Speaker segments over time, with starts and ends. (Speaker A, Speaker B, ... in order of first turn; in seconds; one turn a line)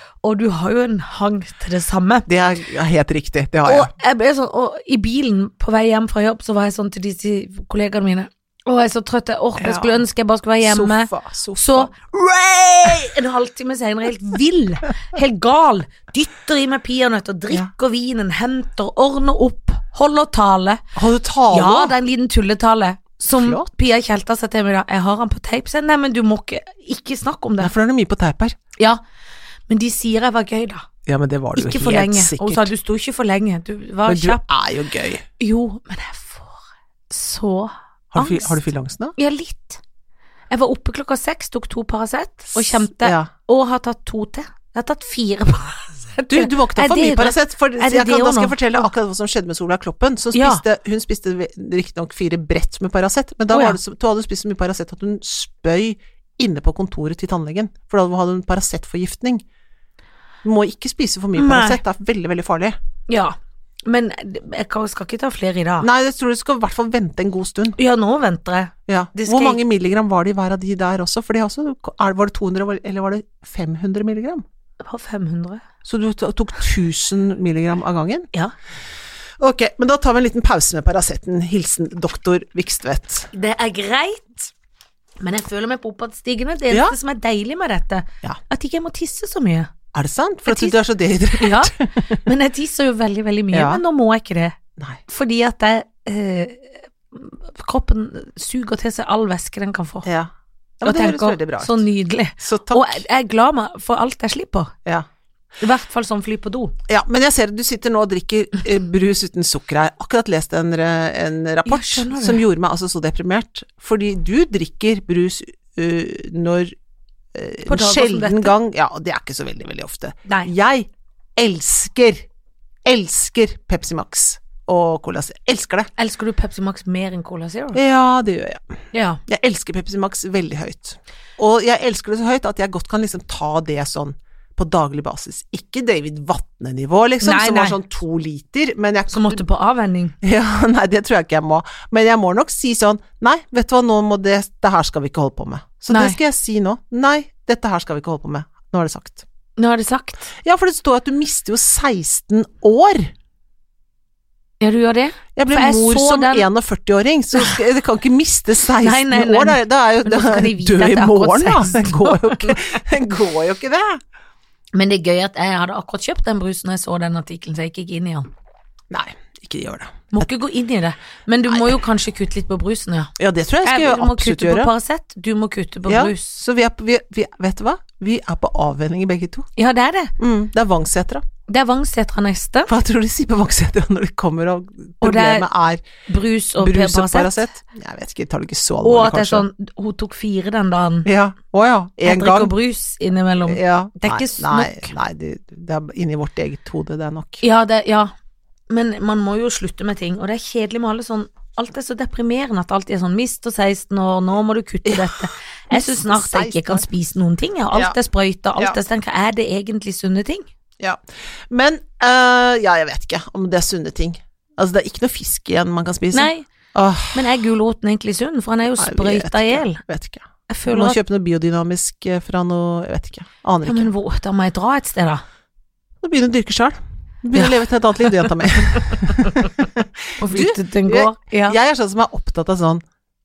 Speaker A: 0.2-2.3
Speaker B: 2.3-3.9
Speaker A: 3.7-20.8
Speaker B: 9.6-10.0
Speaker B: 10.6-11.9
Speaker B: 20.9-21.9
Speaker A: 21.5-27.7
Speaker B: 23.3-23.7
Speaker B: 27.6-28.6
Speaker A: 29.7-30.9
Speaker B: 31.1-32.7
Speaker A: 31.6-34.4
Speaker B: 34.1-35.2
Speaker A: 35.4-38.6
Speaker B: 38.1-39.1
Speaker A: 39.2-39.8
Speaker A: 40.5-48.9
Speaker B: 42.5-43.3
Speaker B: 46.3-59.4
Speaker A: 50.3-50.6
Speaker A: 53.5-53.8
Speaker B: 60.4-62.8
Speaker A: 61.4-61.8
Speaker A: 63.1-65.9
Speaker B: 65.8-67.8
Speaker A: 67.8-69.6
Speaker B: 68.9-74.4
Speaker A: 74.8-75.6
Speaker B: 75.8-78.3
Speaker B: 79.4-83.3
Speaker A: 83.3-84.5
Speaker A: 85.2-89.7
Speaker B: 86.7-87.0
Speaker B: 89.9-92.2
Speaker A: 90.5-90.8
Speaker A: 91.3-100.1
Speaker B: 93.5-93.8
Speaker B: 100.0-101.8
Speaker A: 100.8-104.7
Speaker B: 102.4-103.0
Speaker A: 105.6-106.8
Speaker B: 106.9-116.7
Speaker A: 111.7-112.5
Speaker B: 117.3-122.3
Speaker A: 117.7-118.5
Speaker B: 122.8-125.9
Speaker A: 126.0-127.8
Speaker B: 127.7-128.7
Speaker A: 128.9-129.2
Speaker B: 129.3-139.4
Speaker A: 137.2-137.8
Speaker A: 139.1-140.2
Speaker B: 140.2-149.2
Speaker A: 145.9-146.2
Speaker A: 149.6-150.3
Speaker B: 150.4-153.1
Speaker A: 154.6-156.5
Speaker B: 155.4-164.0
Speaker A: 158.8-162.6
Speaker A: 164.7-168.3
Speaker B: 168.9-170.3
Speaker A: 170.1-173.1
Speaker B: 173.2-174.7
Speaker A: 173.6-176.4
Speaker B: 175.9-179.5
Speaker A: 179.6-180.1
Speaker B: 180.2-181.2
Speaker A: 181.5-182.7
Speaker B: 182.7-185.8
Speaker A: 185.0-185.5
Speaker A: 186.1-187.4
Speaker B: 186.6-189.5
Speaker A: 188.8-191.1
Speaker B: 191.1-192.5
Speaker A: 192.0-194.9
Speaker B: 193.5-197.4
Speaker A: 197.4-198.1
Speaker A: 198.7-210.5
Speaker B: 204.9-205.2
Speaker B: 205.7-206.9
Speaker B: 210.8-217.3
Speaker A: 216.1-216.5
Speaker A: 217.1-219.8
Speaker B: 218.8-223.9
Speaker A: 220.5-221.0
Speaker A: 223.6-225.2
Speaker B: 226.0-232.8
Speaker A: 227.3-229.5
Speaker A: 230.2-231.6